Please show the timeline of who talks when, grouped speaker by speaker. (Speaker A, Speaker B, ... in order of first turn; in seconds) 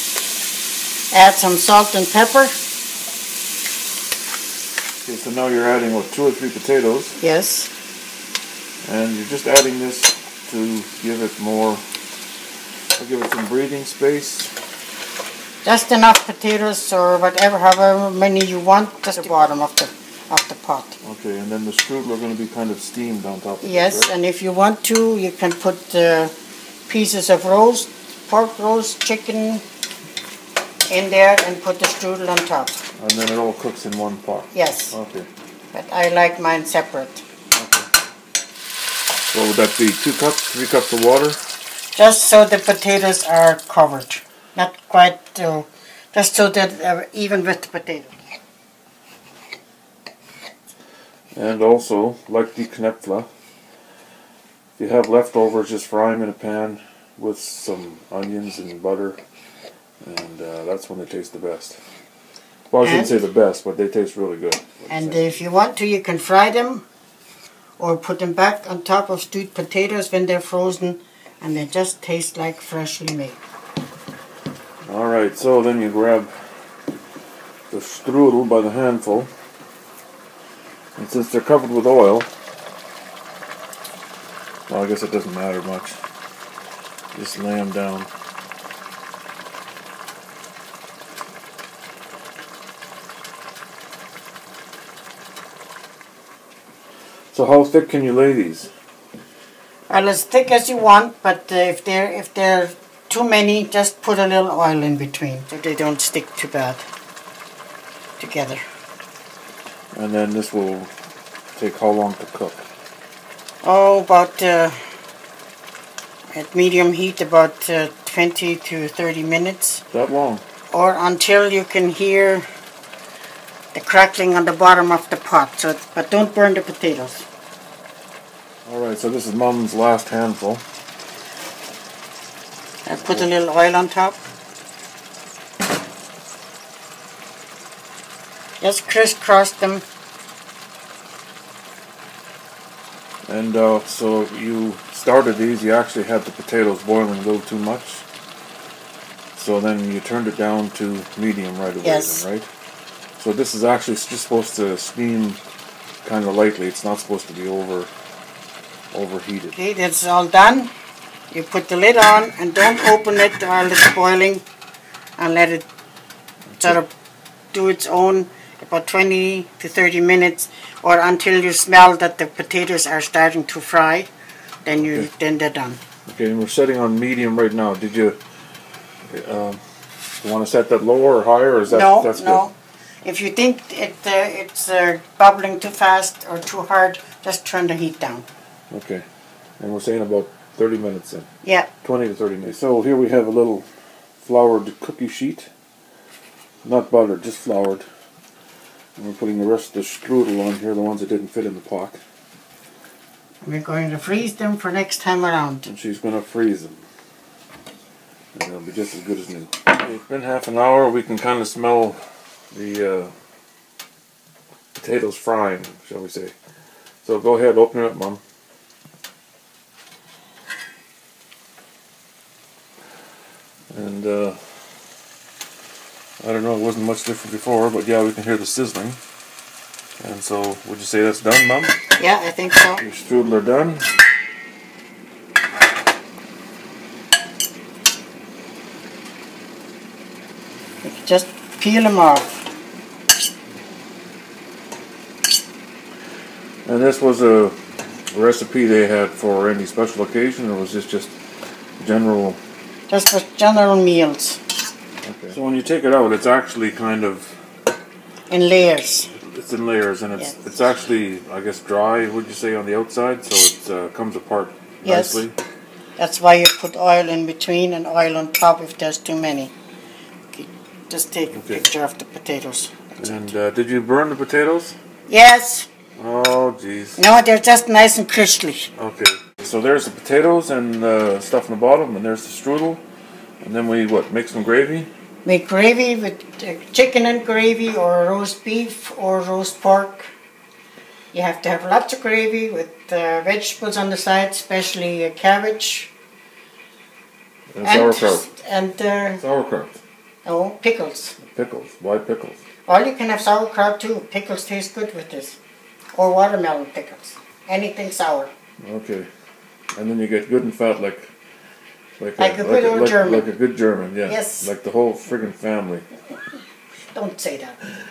Speaker A: 1.1-2.5, 7.2-7.7, 15.6-21.0, 23.6-26.3, 26.9-29.6, 30.9-32.8, 34.5-34.9, 35.7-37.2, 41.9-48.1, 62.8-63.1, 64.9-66.8, 67.8-73.4, 99.9-106.8, 108.2-108.6, 113.6-114.8, 116.3-119.8, 120.7-122.5, 123.7-127.3, 132.8-134.2, 138.6-139.8, 151.8-152.2, 159.6-160.7, 161.3-164.4, 165.2-165.7, 166.6-166.9, 167.5-174.1, 174.6-175.8, 181.7-188.3, 191.4-191.7, 203.4-205.7, 232.0-232.8, 240.8-242.5, 252.9-254.4, 258.3-259.1, 264.8-265.2, 266.0-269.5, 270.3-273.3, 275.1-275.7, 277.0-278.7, 285.2-290.1, 291.1-295.9, 297.6-299.2, 300.2-301.2, 302.6-305.4, 305.9-308.3, 312.2-313.3, 314.1-314.5, 316.9-317.6
Speaker B: 5.0-7.2, 8.8-11.8, 13.0-14.5, 21.0-24.1, 33.0-35.3, 37.5-37.9, 39.3-41.4, 51.3-53.3, 54.8-59.2, 60.0-61.8, 62.7-65.3, 74.8-76.5, 77.7-79.3, 81.0-82.3, 84.7-86.0, 87.1-88.1, 97.3-98.7, 109.9-110.9, 111.5-112.7, 119.9-120.4, 128.7-130.6, 143.2-148.0, 149.3-152.5, 153.2-155.4, 156.0-157.9, 158.9-159.6, 174.8-175.1, 176.1-178.2, 179.1-179.6, 180.2-182.4, 188.7-189.0, 189.6-191.3, 191.8-193.7, 194.2-195.5, 196.6-197.8, 199.0-202.0, 205.6-206.8, 208.3-212.0, 212.5-213.1, 214.7-216.3, 217.0-218.2, 223.7-224.4, 226.2-229.0, 230.0-231.8, 232.8-233.9, 246.6-247.6, 248.1-251.2, 251.8-252.4, 255.1-257.3, 259.1-265.4, 271.3-271.6, 273.0-274.8, 276.0-277.0, 278.8-282.8, 283.4-284.9, 297.5-298.3, 299.2-299.8, 301.2-302.4, 308.6-309.1, 309.7-311.1, 312.0-315.9